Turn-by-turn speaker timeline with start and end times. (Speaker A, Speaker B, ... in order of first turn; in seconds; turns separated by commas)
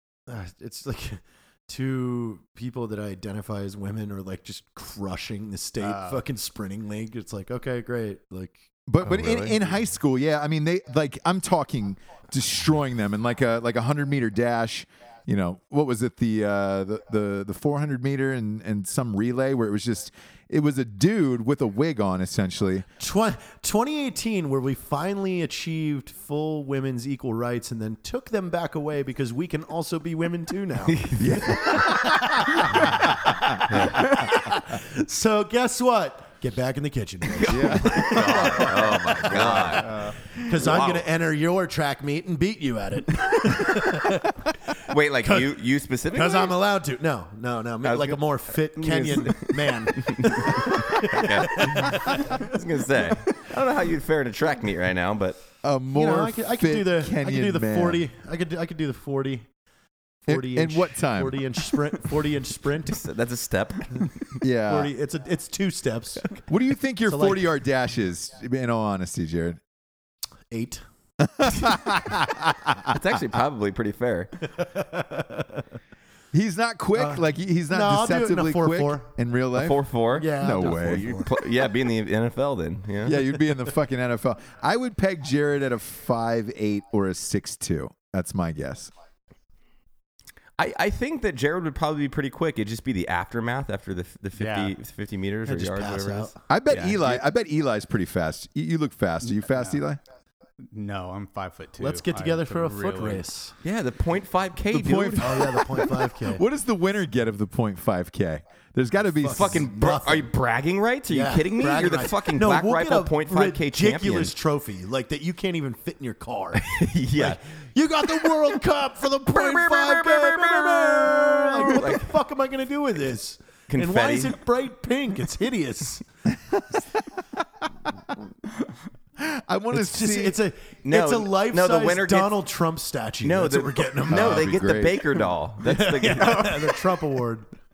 Speaker A: 0.3-8.5, Speaker B: 5.8-6.2, Speaker C: 8.9-22.9, Speaker D: 9.0-9.6, Speaker A: 23.0-52.5, Speaker D: 30.9-31.8, Speaker C: 31.2-33.6, Speaker D: 33.6-34.3, Speaker D: 37.3-41.1, Speaker C: 37.5-39.8, Speaker B: 39.5-40.1, Speaker D: 44.9-46.6, Speaker D: 47.8-55.4, Speaker C: 55.6-58.0, Speaker A: 55.9-59.5, Speaker C: 60.2-61.8, Speaker A: 60.3-63.0, Speaker D: 62.9-64.2, Speaker C: 64.4-64.9, Speaker A: 64.7-66.3, Speaker C: 66.5-69.6, Speaker A: 67.1-67.4, Speaker A: 70.5-70.8, Speaker C: 71.2-73.0, Speaker D: 72.9-74.4, Speaker A: 74.4-75.7, Speaker C: 76.3-79.8, Speaker A: 77.0-79.1, Speaker D: 79.5-83.2, Speaker A: 80.1-81.5, Speaker C: 80.4-81.1, Speaker C: 83.0-88.9, Speaker D: 90.6-97.2, Speaker B: 94.3-94.7, Speaker A: 95.5-96.3, Speaker C: 96.5-100.0, Speaker B: 99.2-99.8, Speaker B: 100.7-103.2, Speaker A: 101.8-103.5, Speaker D: 103.6-105.4, Speaker C: 104.7-109.7, Speaker A: 105.2-106.4, Speaker A: 109.1-110.3, Speaker D: 109.3-114.3, Speaker A: 111.1-126.0, Speaker D: 116.5-117.4, Speaker D: 119.3-122.1, Speaker D: 123.7-124.4, Speaker C: 129.2-130.4, Speaker A: 129.7-134.5, Speaker D: 130.8-132.4, Speaker D: 133.2-136.7, Speaker C: 134.1-135.2, Speaker A: 135.6-137.5, Speaker B: 136.2-136.6